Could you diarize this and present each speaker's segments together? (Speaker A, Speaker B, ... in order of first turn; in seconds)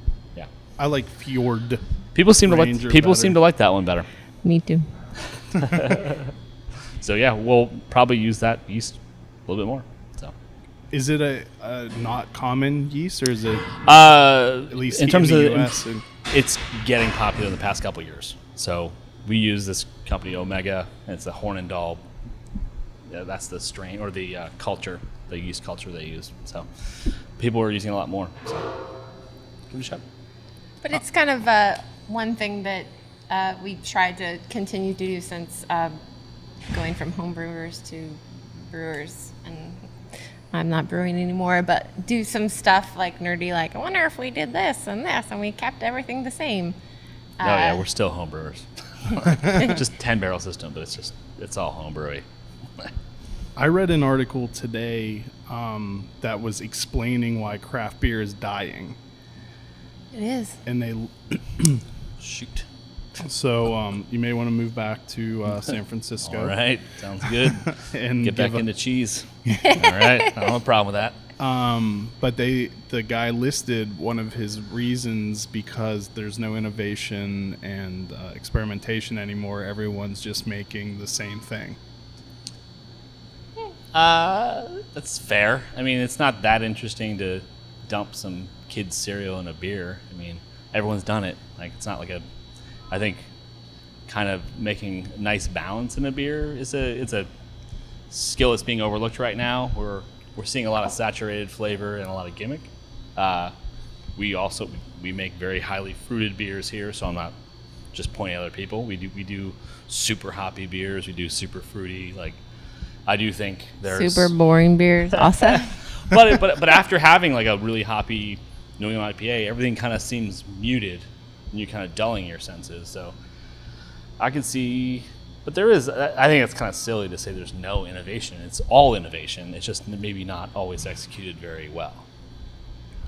Speaker A: 0.8-1.8, 2.5-3.4, 10.9-13.7, 14.7-16.1, 53.6-59.0, 60.7-61.8, 63.2-66.5, 67.4-68.7, 71.4-81.8
Speaker B: 2.1-4.1, 5.5-6.3, 7.0-10.3, 13.9-15.8, 16.3-22.0, 23.1-28.7, 29.7-30.0, 47.4-52.2, 62.2-62.7, 66.2-71.2, 83.9-92.2, 92.9-93.2, 94.1-97.3, 98.1-103.5, 104.2-107.3, 107.9-112.4, 113.1-114.3, 115.2-123.1, 124.2-132.1
Speaker C: 4.4-4.9, 30.8-36.0, 36.7-38.2, 38.7-39.8, 40.5-46.8, 47.4-47.8, 49.4-49.7, 60.1-60.6, 69.6-70.3, 113.9-115.7